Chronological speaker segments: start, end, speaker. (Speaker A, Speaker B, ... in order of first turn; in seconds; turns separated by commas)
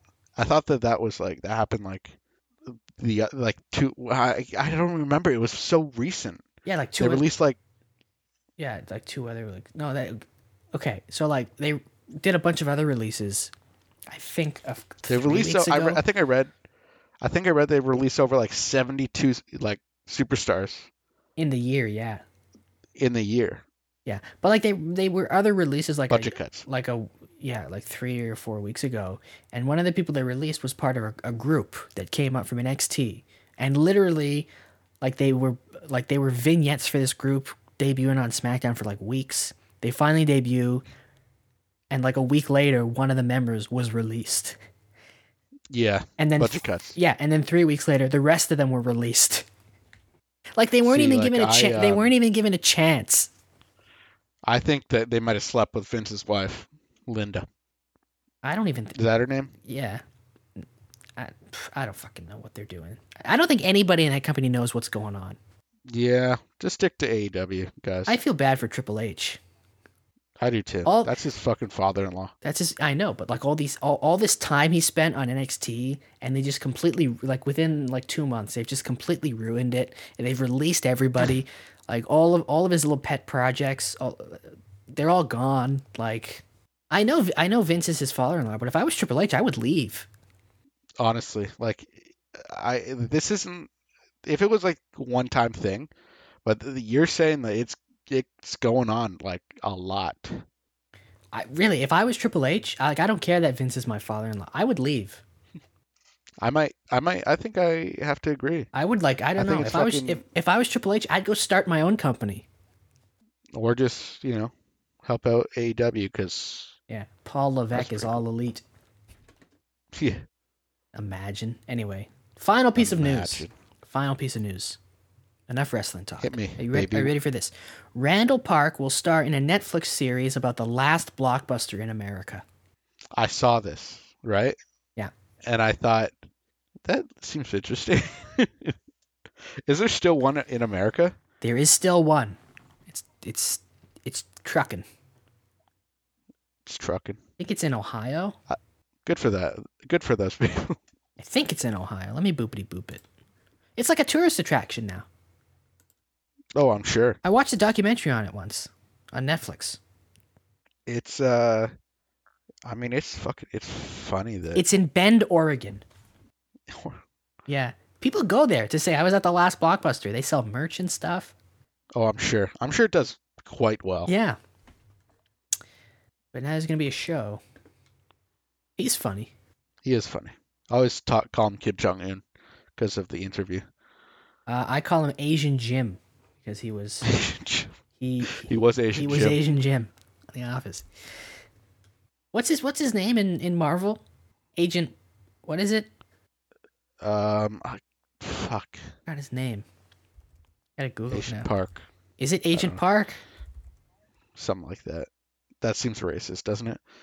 Speaker A: 0.4-6.4, Speaker B: 6.6-7.2, Speaker A: 7.0-7.6, Speaker B: 8.6-13.5, Speaker B: 14.1-16.0, Speaker A: 15.1-16.5, Speaker A: 17.2-20.9, Speaker B: 21.4-22.2, Speaker A: 22.9-23.6, Speaker B: 24.1-34.5, Speaker A: 26.1-26.6, Speaker B: 35.0-40.8, Speaker B: 41.9-44.5, Speaker A: 45.7-47.0, Speaker B: 46.2-49.5, Speaker B: 50.6-53.3, Speaker A: 50.8-52.1, Speaker A: 54.5-57.5, Speaker B: 58.4-59.0, Speaker A: 58.9-59.5, Speaker B: 59.6-60.0, Speaker B: 61.2-65.4, Speaker A: 65.9-68.2, Speaker B: 68.0-69.4, Speaker A: 70.4-72.3, Speaker B: 70.8-71.1, Speaker B: 72.4-90.1, Speaker A: 91.0-93.7, Speaker A: 94.2-95.9, Speaker A: 96.4-100.4, Speaker B: 101.3-105.2, Speaker A: 106.4-108.7, Speaker B: 108.7-112.5, Speaker A: 109.4-110.2, Speaker A: 113.5-114.5, Speaker A: 115.0-116.7, Speaker B: 116.9-118.6, Speaker A: 117.7-118.2, Speaker A: 119.9-120.2, Speaker B: 120.9-124.8, Speaker A: 122.8-123.5, Speaker B: 125.5-132.4, Speaker A: 126.2-127.1, Speaker A: 133.1-134.6, Speaker A: 135.4-136.1, Speaker A: 136.8-138.8, Speaker A: 139.7-141.2, Speaker B: 141.4-142.4, Speaker B: 142.9-144.8, Speaker A: 146.6-147.2, Speaker B: 147.4-148.4, Speaker A: 148.5-150.8, Speaker B: 151.2-153.0, Speaker B: 153.8-155.1, Speaker A: 156.6-157.2, Speaker B: 157.2-159.8, Speaker A: 160.9-161.7, Speaker A: 162.6-164.6, Speaker B: 164.5-165.8, Speaker A: 166.7-167.0, Speaker B: 167.5-171.3, Speaker A: 171.9-174.1, Speaker B: 174.1-174.4, Speaker B: 176.3-177.4, Speaker B: 178.8-179.3, Speaker A: 179.8-182.2, Speaker A: 182.8-183.7, Speaker B: 184.5-187.1, Speaker A: 187.0-187.7, Speaker B: 188.0-190.9, Speaker A: 188.3-189.4, Speaker B: 192.3-194.0, Speaker B: 194.6-194.9, Speaker B: 195.4-195.9, Speaker A: 197.0-198.9, Speaker B: 199.1-199.6, Speaker B: 200.8-201.5, Speaker A: 201.1-201.9, Speaker B: 202.2-203.2, Speaker A: 202.5-202.8, Speaker A: 204.4-205.1, Speaker A: 205.6-206.8